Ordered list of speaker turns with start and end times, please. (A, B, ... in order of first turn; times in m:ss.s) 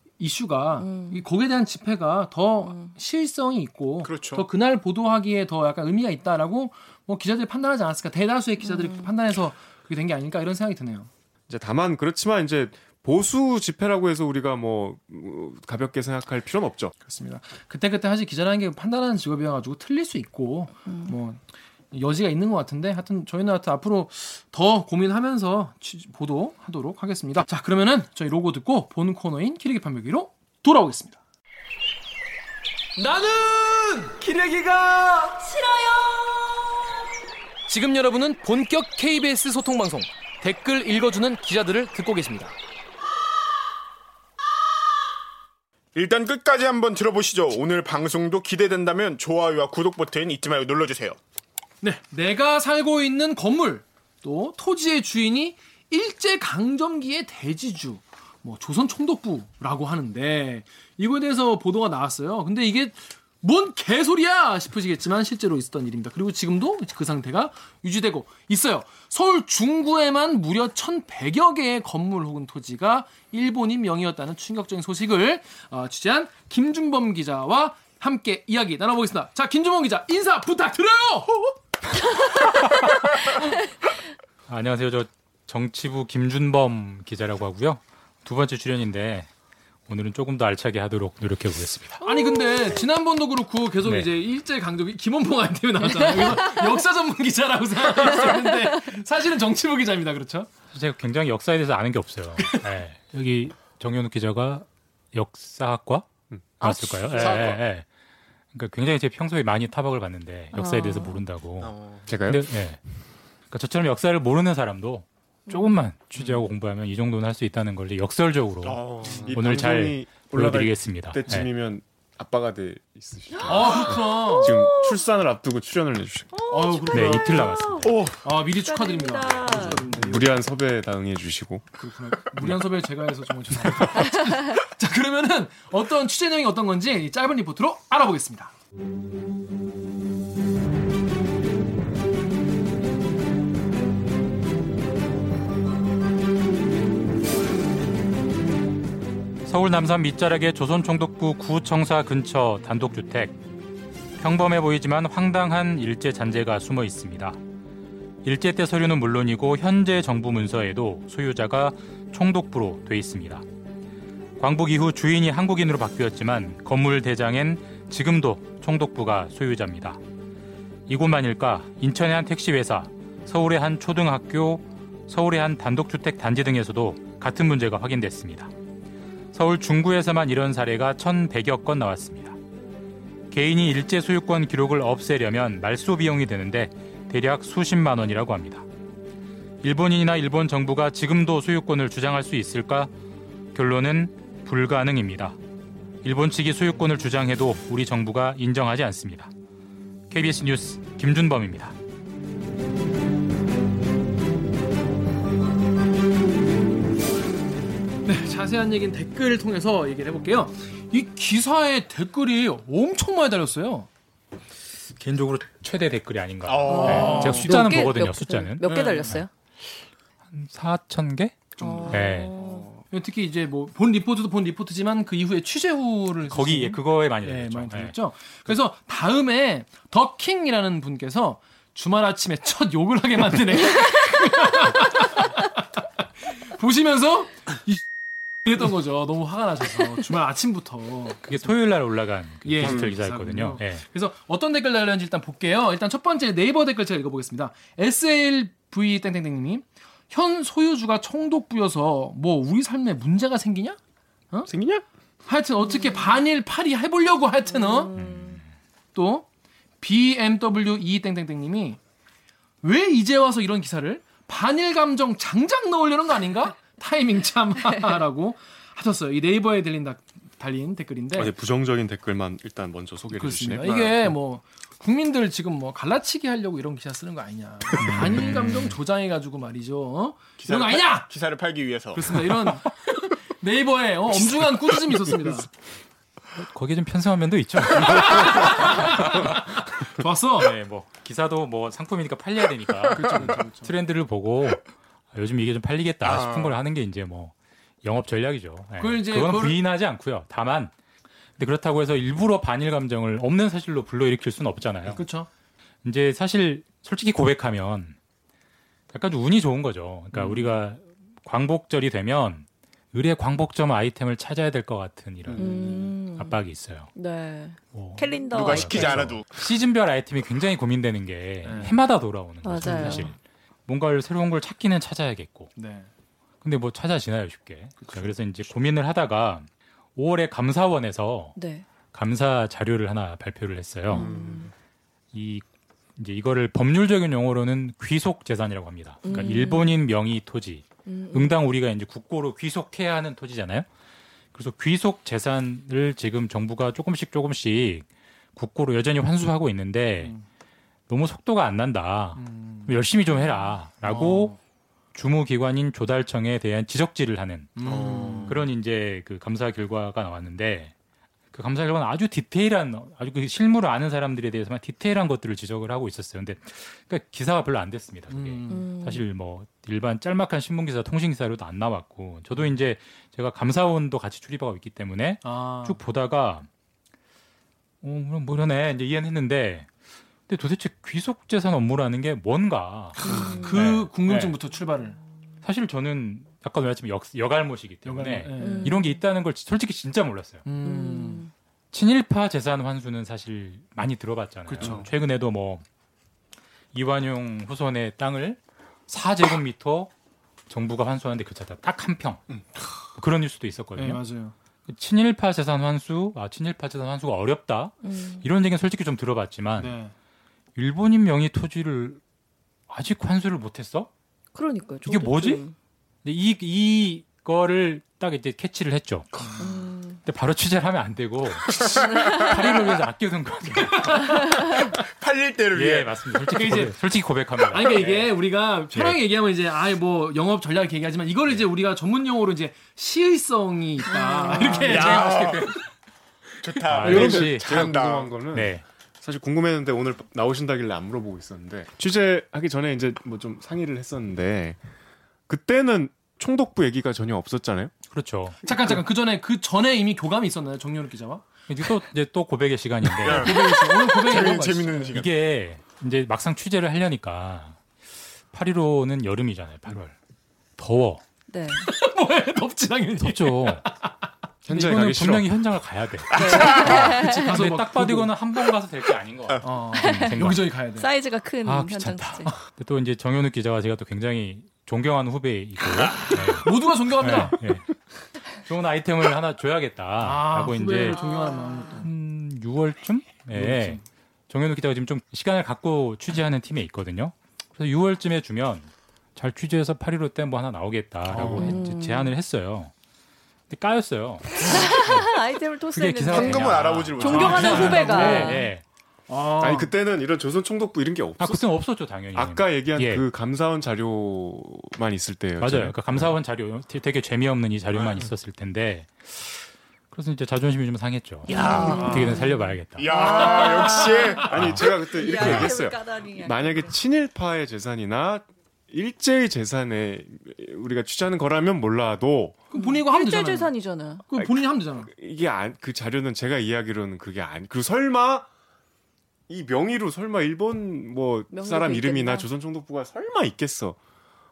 0:00.2-0:11.1 A
0:00.8-0:01.2 B
0:04.0-0:04.4 C
0:11.5-0:16.9 D
0:17.0-0:31.2 A
0:33.0-0:35.4 A
0:35.4-0:36.5 B
0:37.7-0:42.6 A
0:45.9-0:51.2 C
0:51.8-1:21.6 A
1:24.5-1:29.3 E
1:29.9-1:32.0 E
1:32.0-1:40.5 A
1:32.0-1:32.8 B
1:33.8-1:34.1 E
1:36.0-1:36.6 B
1:40.7-1:46.1 E
1:46.6-1:47.9 E
1:46.7-1:47.6 C
1:46.7-1:47.4 B
1:48.5-1:52.8 E
1:50.5-1:51.2 B
1:51.6-1:52.1 C
1:52.1-1:52.5 D
1:53.5-2:01.5 E
1:55.5-1:55.7 B
1:58.6-1:59.3 C
1:59.2-2:06.3 D
2:03.4-2:05.0 B
2:03.4-2:04.5 A
2:06.3-2:09.8 B
2:06.5-2:10.4 A
2:06.9-2:08.1 E
2:09.8-2:11.7 D
2:11.8-2:18.5 A
2:29.4-2:33.4 E
2:34.2-2:37.4 E
2:38.2-2:43.4 E
2:44.4-2:50.0 E
2:50.9-2:58.5 E
2:59.3-3:02.4 E
3:03.3-3:08.6 E
3:09.6-3:12.9 E
3:13.5-3:15.4 E
3:16.0-3:19.3 E
3:20.1-3:21.8 E
3:28.0-3:33.9 A
3:35.0-3:39.3 E
3:36.4-3:37.6 C
3:36.6-3:39.3 B
3:36.7-3:37.6 A
3:40.3-3:42.4 E
3:41.6-3:55.5 A
3:41.6-3:42.7 B
3:46.3-3:47.9 E
3:56.2-3:57.8 A
3:58.4-4:01.3 A
4:01.3-4:03.8 E
4:02.4-4:13.8 A
4:02.6-4:02.9 C
4:14.5-4:14.8 D
4:15.3-4:17.9 A
4:15.8-4:16.1 B
4:17.5-4:18.4 B
4:17.9-4:18.4 E
4:18.9-4:19.3 A
4:19.8-4:21.8 A
4:22.6-4:31.3 A
4:31.1-4:34.1 D
4:33.2-4:41.1 A
4:37.8-4:38.8 E
4:40.4-4:42.5 C
4:41.9-4:45.5 A
4:46.4-4:49.7 E
4:47.7-4:50.6 A
4:50.4-5:00.7 E
4:52.9-4:53.7 A
4:56.0-4:56.6 C
4:58.8-4:59.6 A
5:01.4-5:05.0 E
5:04.9-5:05.3 A
5:05.8-5:08.0 E
5:08.9-5:16.9 E
5:10.1-5:10.4 A
5:15.3-5:15.5 A
5:15.4-5:16.4 B
5:16.9-5:19.0 B
5:17.7-5:23.2 E
5:18.3-5:19.4 C
5:21.4-5:21.8 A
5:22.4-5:23.1 B
5:22.6-5:23.1 A
5:23.7-5:25.5 E
5:25.6-5:25.9 A
5:26.4-5:31.4 E
5:27.8-5:28.1 A
5:31.4-5:31.6 B
5:31.9-5:34.2 E
5:33.9-5:34.5 B
5:34.1-5:34.4 C
5:35.1-5:43.7 E
5:39.0-5:39.8 B
5:40.9-5:41.4 B
5:44.3-5:50.1 E
5:50.9-5:54.4 E
5:52.2-5:52.8 A
5:53.8-5:54.4 A
5:54.9-6:00.7 E
5:57.6-5:58.4 A
5:57.6-5:58.4 C
6:01.3-6:16.5 E
6:08.1-6:08.7 A
6:08.5-6:09.0 B
6:15.2-6:15.8 A
6:17.8-6:19.7 E
6:20.3-6:24.4 E
6:23.0-6:25.0 A
6:23.0-6:23.6 B
6:25.4-6:30.4 E
6:27.9-6:28.8 A
6:28.4-6:29.0 B
6:30.4-6:31.2 A
6:30.6-6:31.3 B
6:31.7-6:35.6 E
6:34.5-6:34.9 A
6:36.7-6:39.9 E
6:40.5-6:42.2 E
6:42.9-6:44.0 E
6:43.8-6:44.3 A
6:44.7-6:49.8 E
6:47.8-6:48.2 B
6:49.6-6:49.9 A
6:50.6-6:52.0 E
6:52.7-6:53.9 E
6:54.3-6:55.6 B
6:54.8-6:55.4 E
6:56.0-6:59.1 E
6:59.4-7:00.0 B
7:00.0-7:04.7 E
7:01.5-7:02.3 C
7:01.9-7:02.4 B
7:03.7-7:04.2 A
7:04.7-7:06.2 C
7:05.5-7:08.0 E
7:06.3-7:06.8 A
7:07.5-7:15.6 A
7:07.8-7:08.1 C
7:08.7-7:09.0 E
7:13.9-7:14.9 B
7:14.7-7:15.6 C
7:16.4-7:18.2 C
7:16.7-7:17.7 E
7:16.8-7:24.6 D
7:18.3-7:18.6 E
7:25.3-7:27.7 D
7:27.9-7:28.4 E
7:28.4-7:31.3 A
7:31.5-7:33.5 E
7:32.8-7:35.0 A
7:33.0-7:35.1 C
7:34.9-7:37.6 E
7:38.3-7:40.0 E
7:40.6-7:41.0 E
7:41.3-7:41.6 B
7:41.5-7:44.1 A
7:43.0-7:43.6 E
7:44.4-7:45.3 D
7:44.5-7:50.5 E
7:46.1-7:47.3 B
7:46.1-7:48.2 A
7:46.2-7:46.7 C
7:49.4-7:50.9 A
7:49.8-7:50.2 B
7:50.8-7:52.3 B
7:51.4-8:01.1 E
7:56.1-7:57.5 A
8:00.0-8:01.9 A
8:00.8-8:01.8 B
8:01.7-8:12.7 E
8:03.3-8:03.8 A
8:11.1-8:11.6 A
8:11.3-8:12.1 B
8:13.5-8:15.2 E
8:14.4-8:18.5 B
8:15.7-8:18.6 E
8:16.1-8:18.2 C
8:17.0-8:18.4 A
8:19.1-8:19.7 A
8:19.4-8:21.4 D
8:21.2-8:23.1 E
8:22.1-8:26.1 D
8:25.4-8:33.3 E
8:31.3-8:36.7 B
8:31.3-8:32.3 A
8:31.4-8:31.8 C
8:32.8-8:34.5 C
8:33.2-8:34.0 A
8:34.2-8:42.4 D
8:34.3-8:35.5 E
8:42.5-8:43.5 A
8:42.5-8:44.0 B
8:44.0-8:44.9 A
8:44.2-8:48.3 D
8:49.3-8:53.8 D
8:51.3-8:52.3 B